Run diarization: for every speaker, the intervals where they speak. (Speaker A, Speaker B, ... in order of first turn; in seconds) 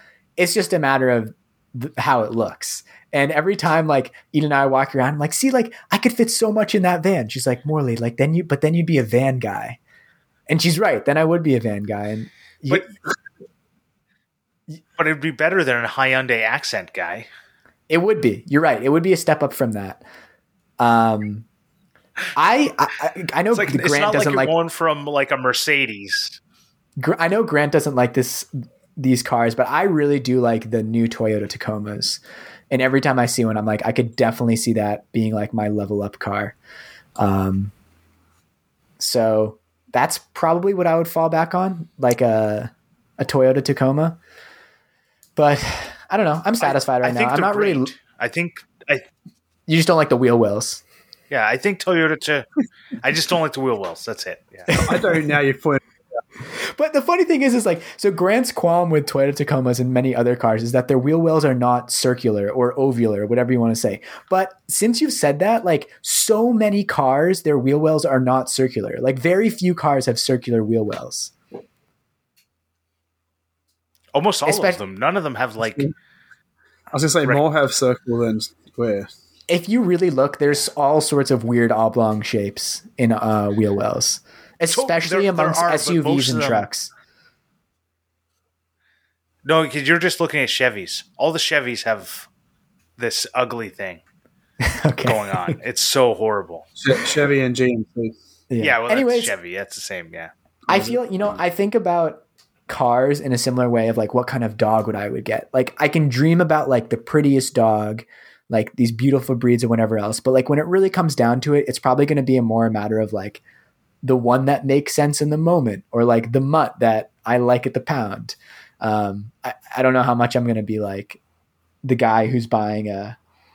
Speaker A: 0.4-9.8, 10.5-12.9, 17.9-20.0, 20.8-21.4, 22.4-24.5, 27.0-36.5, 37.2-37.7, 39.0-44.2, 45.4-47.9, 49.7-50.8, 54.7-55.3, 56.4-71.3, 74.4-74.8, 79.5-86.9, 94.6-95.5, 98.5-99.3, 100.7-113.4, 114.0-121.2, 121.8-123.2
Speaker B: 15.0-17.3, 23.5-26.4, 46.6-49.0, 51.3-52.5, 53.0-54.7, 74.1-75.9, 84.7-86.7, 89.4-92.3, 93.0-94.0, 95.0-96.7, 98.6-100.3
Speaker C: 54.7-55.8, 76.9-79.1, 96.8-98.1, 100.7-101.0